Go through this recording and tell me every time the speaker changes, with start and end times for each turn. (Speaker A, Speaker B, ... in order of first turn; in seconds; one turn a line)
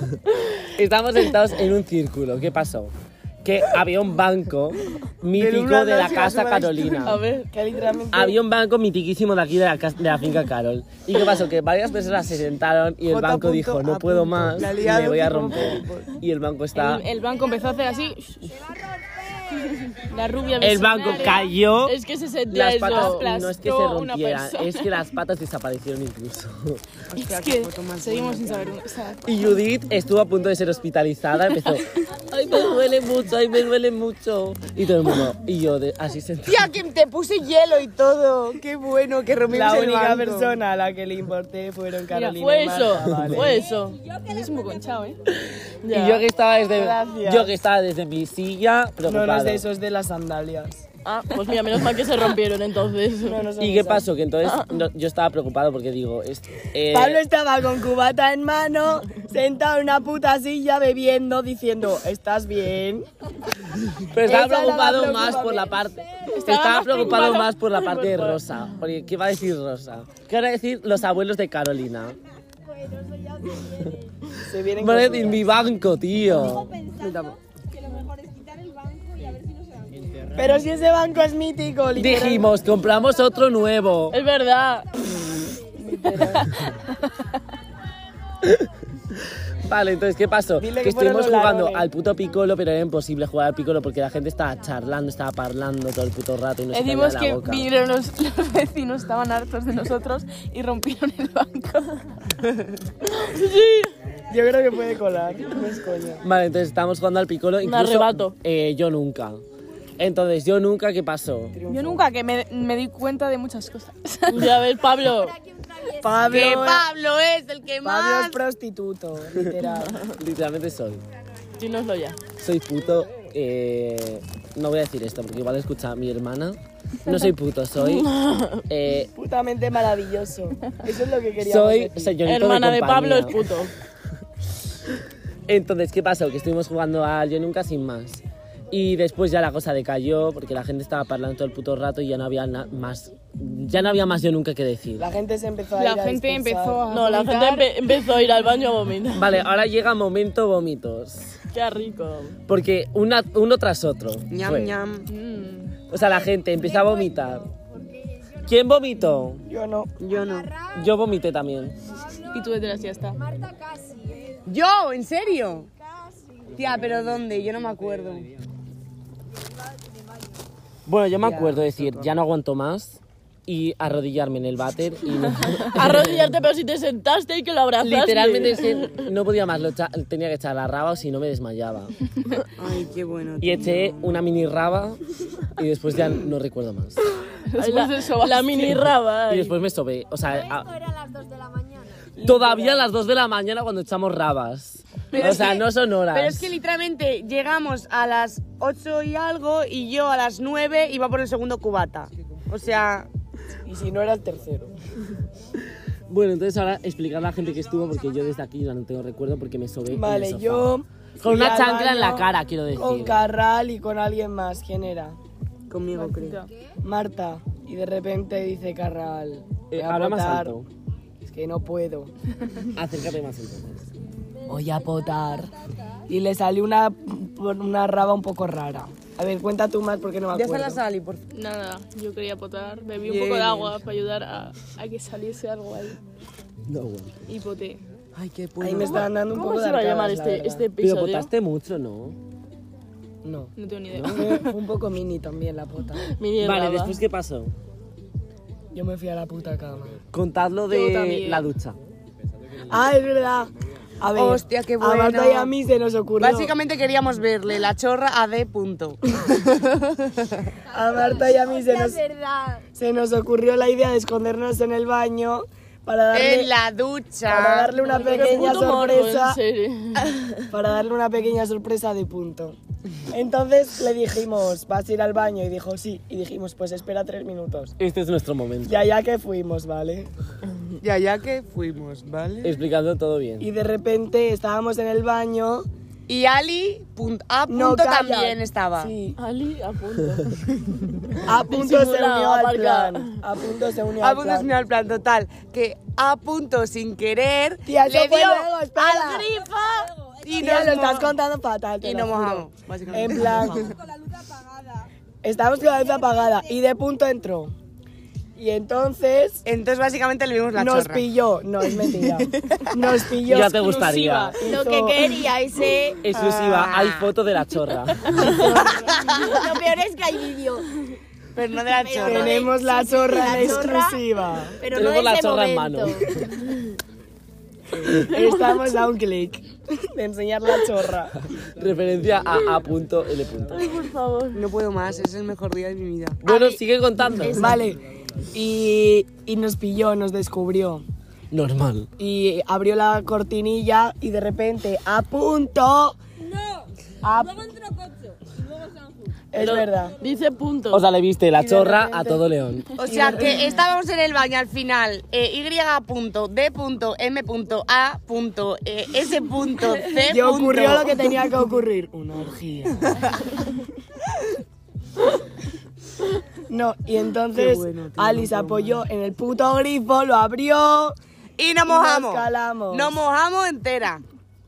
Speaker A: 0.6-2.9
Speaker A: 3.4-7.2
Speaker B: 5.4-7.1
Speaker C: 5.7-6.3
Speaker D: 7.0-7.5
Speaker C: 7.5-8.4
Speaker A: 8.1-17.0
Speaker B: 13.1-16.2
Speaker E: 16.7-18.6
Speaker E: 20.0-21.5
Speaker A: 20.6-21.9
Speaker D: 21.2-23.3
Speaker A: 22.5-27.0
Speaker E: 22.9-25.0
Speaker B: 27.1-28.8
Speaker E: 27.2-29.5
Speaker A: 29.2-36.6
Speaker B: 36.5-40.6
Speaker C: 39.5-43.7
Speaker E: 42.1-42.4
Speaker D: 42.4-44.0
Speaker E: 44.2-45.2
Speaker D: 45.8-46.2
Speaker A: 45.9-49.6
Speaker C: 46.7-47.5
Speaker C: 49.0-50.8
Speaker D: 51.0-53.4
Speaker C: 53.2-54.1
Speaker A: 53.6-57.2
Speaker C: 56.9-63.1
Speaker A: 64.0-72.2
Speaker C: 64.2-65.8
Speaker D: 66.3-68.4
Speaker A: 73.6-73.9
Speaker C: 74.4-75.5
Speaker A: 74.8-76.8
Speaker C: 76.9-77.4
Speaker C: 80.3-82.5
Speaker A: 82.0-84.2
Speaker D: 84.1-84.9
Speaker C: 85.0-86.5
Speaker A: 89.6-97.7
Speaker C: 90.6-91.9
Speaker E: 96.7-102.0
Speaker D: 103.0-103.9
Speaker C: 104.3-106.2
Speaker A: 106.2-109.4
Speaker D: 107.6-108.3
Speaker A: 110.0-111.5
Speaker C: 111.5-112.1
Speaker E: 111.7-114.5
Speaker D: 114.3-115.4
Speaker C: 115.8-116.9
Speaker B: 116.2-118.4
Speaker C: 117.8-120.0
Speaker A: 120.1-121.0
Speaker D: 121.6-122.2
Speaker A: 122.4-128.1
Speaker D: 127.8-128.6
Speaker A: 128.7-129.1
Speaker C: 129.2-132.2
Speaker A: 131.4-133.3
Speaker D: 132.2-133.7
Speaker A: 135.5-145.1
Speaker C: 145.0-146.8
Speaker E: 145.8-147.7
Speaker D: 146.9-149.3
Speaker A: 149.1-151.4
Speaker D: 151.5-152.3
Speaker A: 152.5-154.7
Speaker B: 154.3-155.1
Speaker E: 155.1-155.8
Speaker A: 155.9-157.5
Speaker A: 158.4-159.4
Speaker C: 159.5-159.9
Speaker B: 160.0-160.6
Speaker A: 160.7-161.8
Speaker E: 162.3-163.3
Speaker B: 164.4-165.7
Speaker B: 166.4-168.3
Speaker A: 170.8-176.3
Speaker B: 171.2-172.1
Speaker D: 175.7-178.9
Speaker A: 177.8-181.9
Speaker B: 182.6-184.2
Speaker A: 183.4-185.0
Speaker A: 185.6-187.0
Speaker E: 187.5-188.8
Speaker D: 187.5-189.5
Speaker A: 189.3-190.7
Speaker F: 190.5-192.1
Speaker C: 192.2-192.9
Speaker A: 192.2-196.5
Speaker E: 195.1-195.5
Speaker B: 195.2-203.1
Speaker C: 203.7-204.7
Speaker A: 206.1-210.7
Speaker C: 209.9-215.2
Speaker A: 211.2-213.2
Speaker B: 215.7-216.4
Speaker E: 215.9-216.5
Speaker C: 216.8-220.6
Speaker A: 219.7-220.7
Speaker C: 221.2-222.1
Speaker A: 222.7-223.9
Speaker C: 224.5-225.5
Speaker C: 226.1-230.8
Speaker B: 230.3-231.2
Speaker E: 231.3-236.0
Speaker B: 233.0-233.8
Speaker A: 236.7-237.2
Speaker E: 237.3-237.8
Speaker B: 238.1-239.1
Speaker C: 238.6-240.7
Speaker D: 238.8-241.3
Speaker A: 240.8-242.2
Speaker C: 243.2-243.5
Speaker E: 243.6-244.5
Speaker A: 243.9-244.2
Speaker C: 244.0-246.1
Speaker D: 246.1-247.0
Speaker A: 246.4-247.5
Speaker C: 248.7-250.0
Speaker A: 250.1-251.8
Speaker E: 250.7-251.5
Speaker C: 252.7-256.5
Speaker B: 254.1-255.5
Speaker B: 256.2-260.2
Speaker C: 260.7-262.0
Speaker F: 261.3-262.6
Speaker C: 262.7-266.5
Speaker B: 266.1-267.9
Speaker C: 267.3-269.4
Speaker D: 268.0-270.2
Speaker C: 270.5-272.6
Speaker C: 273.1-277.7
Speaker A: 277.8-278.7
Speaker C: 278.6-280.1
Speaker B: 280.8-282.5
Speaker A: 282.4-283.5
Speaker C: 283.4-285.6
Speaker B: 286.1-288.9
Speaker C: 287.5-289.2
Speaker D: 289.2-290.9
Speaker C: 291.2-294.5
Speaker D: 291.4-293.2
Speaker B: 294.0-301.1
Speaker C: 297.6-299.3
Speaker C: 300.4-303.7
Speaker B: 301.8-303.8
Speaker C: 305.2-307.5
Speaker C: 308.4-309.4
Speaker B: 309.4-311.1
Speaker C: 310.5-315.3
Speaker B: 311.9-312.8
Speaker A: 313.3-314.4
Speaker F: 314.4-316.0
Speaker A: 316.0-318.3
Speaker B: 316.1-317.1
Speaker B: 318.1-319.5
Speaker C: 318.2-319.2
Speaker F: 319.2-320.6
Speaker B: 321.3-322.5
Speaker F: 321.6-324.0
Speaker C: 322.0-324.6
Speaker F: 324.6-326.1
Speaker A: 324.7-326.0
Speaker C: 327.7-331.2
Speaker D: 327.9-328.8
Speaker A: 331.4-333.6
Speaker D: 333.5-334.4
Speaker B: 334.3-336.2
Speaker A: 336.2-337.6
Speaker F: 336.3-336.6
Speaker C: 337.2-337.8
Speaker C: 338.3-340.8
Speaker A: 341.3-341.9
Speaker C: 342.0-346.0
Speaker C: 347.0-347.5
Speaker C: 349.3-349.9
Speaker D: 349.4-350.8
Speaker A: 350.7-352.7
Speaker C: 351.4-352.2
Speaker C: 352.8-353.6
Speaker B: 352.8-361.0
Speaker C: 360.1-363.0
Speaker C: 366.5-370.9
Speaker B: 367.3-368.8
Speaker B: 371.4-374.0
Speaker C: 371.6-373.0